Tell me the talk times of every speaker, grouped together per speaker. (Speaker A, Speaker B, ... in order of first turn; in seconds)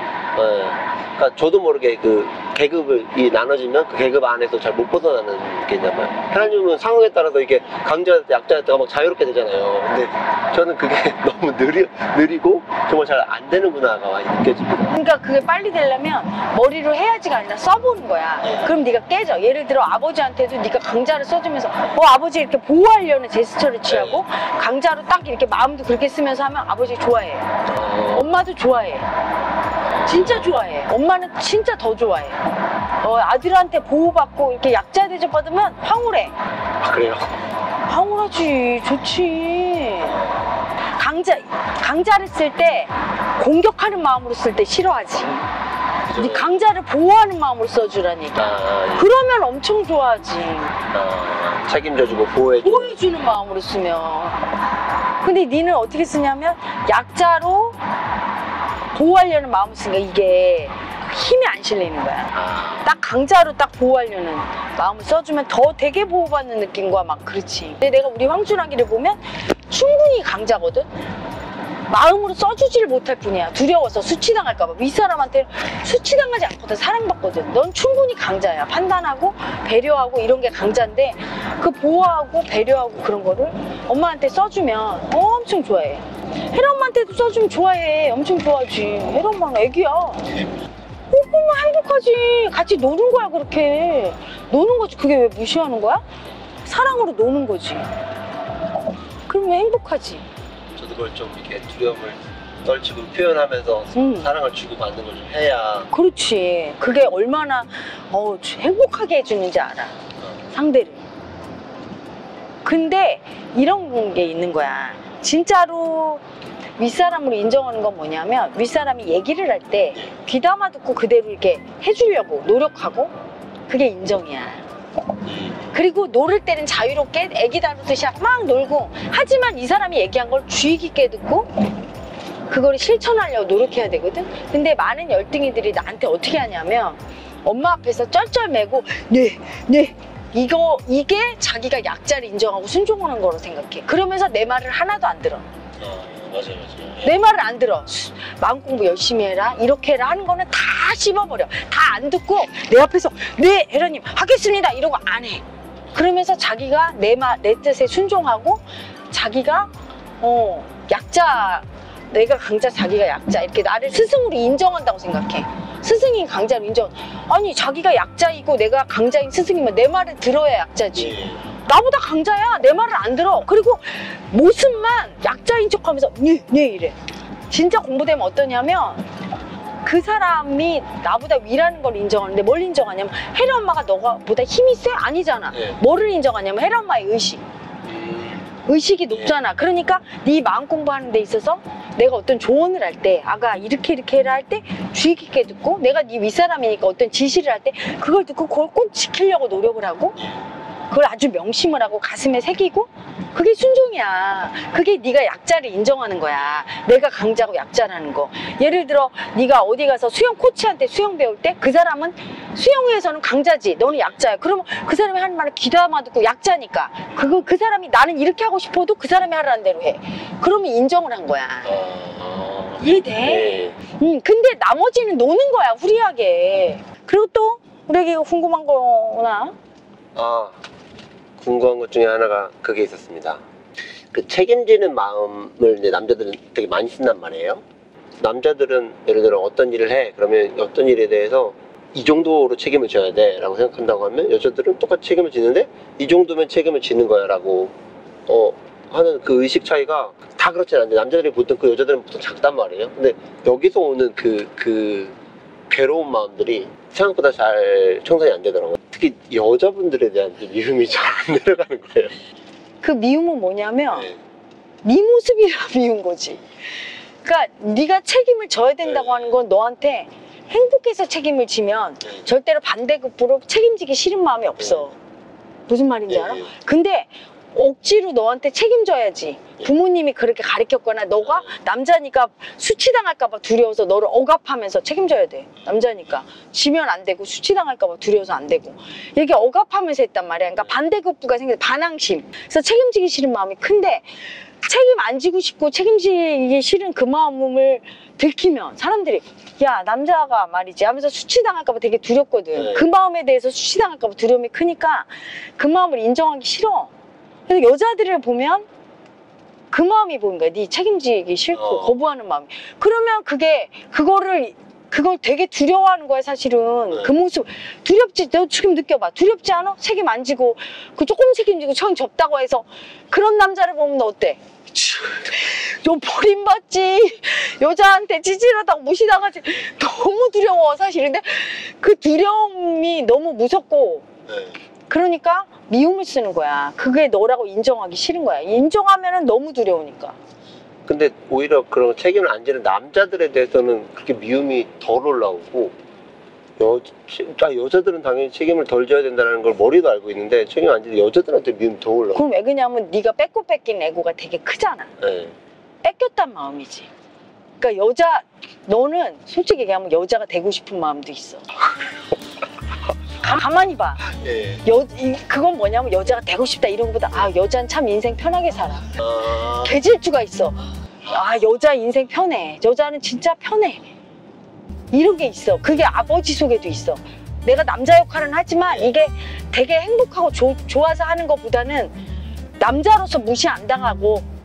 Speaker A: 0.3-14.9, 18.4-18.7, 23.9-24.2, 27.7-28.2, 29.9-30.5, 36.8-37.4, 40.1-40.5, 46.0-46.6, 48.3-49.1, 50.9-52.9, 62.3-62.8, 100.7-105.9, 125.2-125.7, 145.8-147.1, 170.9-171.4, 187.8-188.5, 200.2-200.4, 213.9-214.1, 221.6-223.8, 230.2-230.6, 231.4-233.4, 234.1-237.6, 238.2-247.7, 248.3-255.2, 255.7-262.1, 263.9-264.2, 268.8-269.3, 274.6-274.9, 276.1-276.5, 281.2-281.5, 302.5-302.9, 311.5-311.9, 334.3-334.5, 340.9-345.7, 346.6-352.2, 355.0-355.3, 364.1-364.6, 369.0-369.7
Speaker B: 14.9-27.5, 28.1-29.1, 30.0-32.4, 33.0-36.3, 37.9-40.2, 41.0-45.5, 46.1-48.4, 49.0-50.8, 52.6-54.5, 55.2-57.8, 58.9-70.9, 71.9-90.3, 91.1-96.0, 96.6-97.9, 99.3-100.2, 103.9-104.3, 105.9-109.9, 110.5-111.0, 112.6-116.2, 116.8-123.1, 123.7-124.6, 125.7-131.5, 132.5-145.4, 147.0-176.9, 177.5-179.1, 179.8-187.4, 188.7-200.2, 200.9-221.7, 222.8-229.5, 262.8-264.1, 264.8-266.4, 267.2-274.9, 275.7-294.0, 294.6-306.9, 307.5-308.7, 309.7-334.1, 334.9-340.1, 352.1-354.9, 355.8-356.9, 357.6-361.4, 363.2-364.0, 364.6-368.9, 369.6-373.8, 374.9-381.9, 382.6-384.3